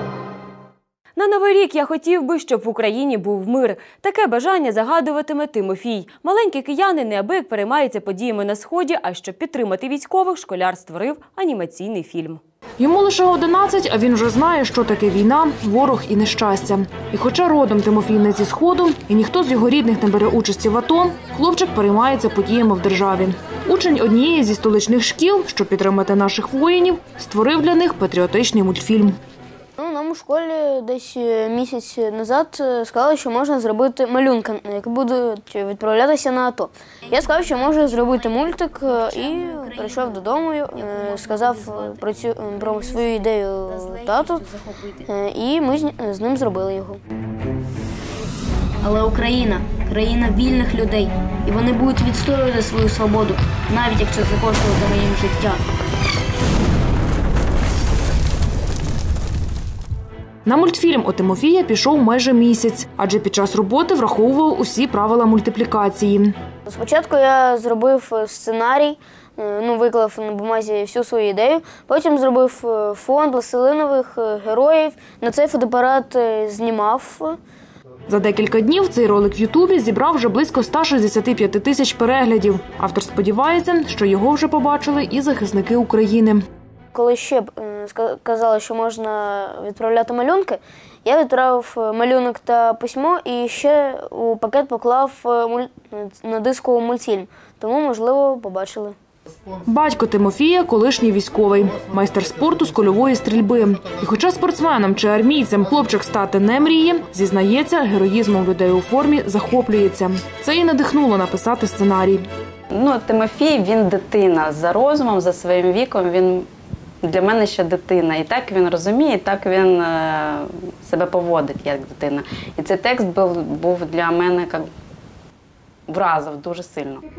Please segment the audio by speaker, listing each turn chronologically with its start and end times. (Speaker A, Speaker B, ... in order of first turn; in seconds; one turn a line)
Speaker A: 1.1-12.4
Speaker B: 12.8-29.2
Speaker C: 29.8-44.4
Speaker D: 38.1-40.1
Speaker D: 40.7-45.1
Speaker C: 45.1-47.0
Speaker D: 48.8-55.6
Speaker B: 60.4-66.3
Speaker C: 66.7-77.4
Speaker B: 78.1-86.5
Speaker C: 86.9-98.9
Speaker B: 99.7-112.2
Speaker E: 112.7-116.5
Speaker E: 117.0-124.7
Speaker E: 125.9-127.0